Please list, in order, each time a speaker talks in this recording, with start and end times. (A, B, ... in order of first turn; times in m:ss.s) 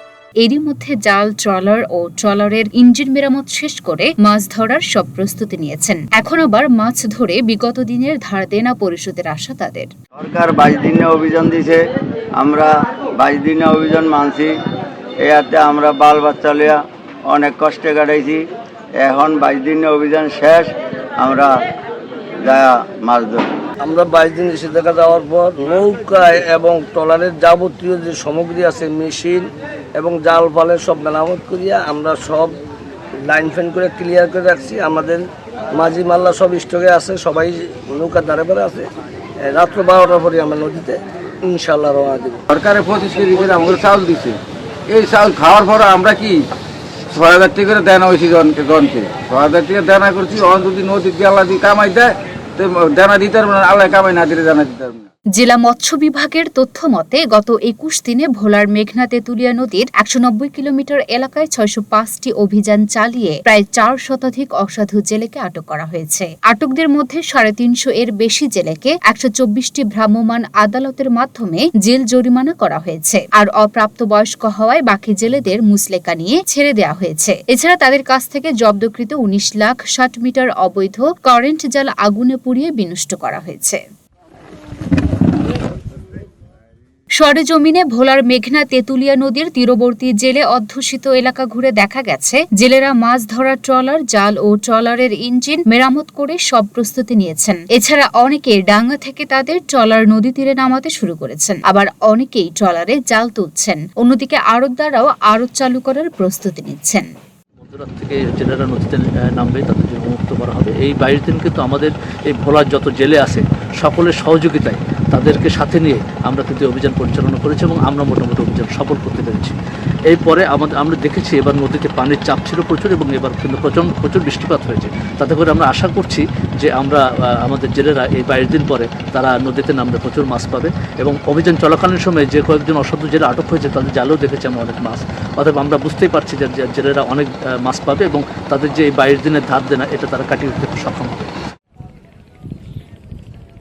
0:00.4-0:09.9 A
0:10.2-0:11.8 B
0:12.4-0:14.5 B
0:15.2-0:18.4 B
0:19.0-0:21.5 B
0:22.4-0:23.4 B
0:23.8-0:32.6 C
0:33.2-0:38.9 C
0:39.4-0:42.4 C
0:42.5-0:44.4 D
0:44.9-0:46.4 D
0:47.1-0:55.1 D
0:55.3-1:23.8 A
1:27.2-1:47.1 A
1:47.6-1:59.6 E
2:00.1-2:21.3 E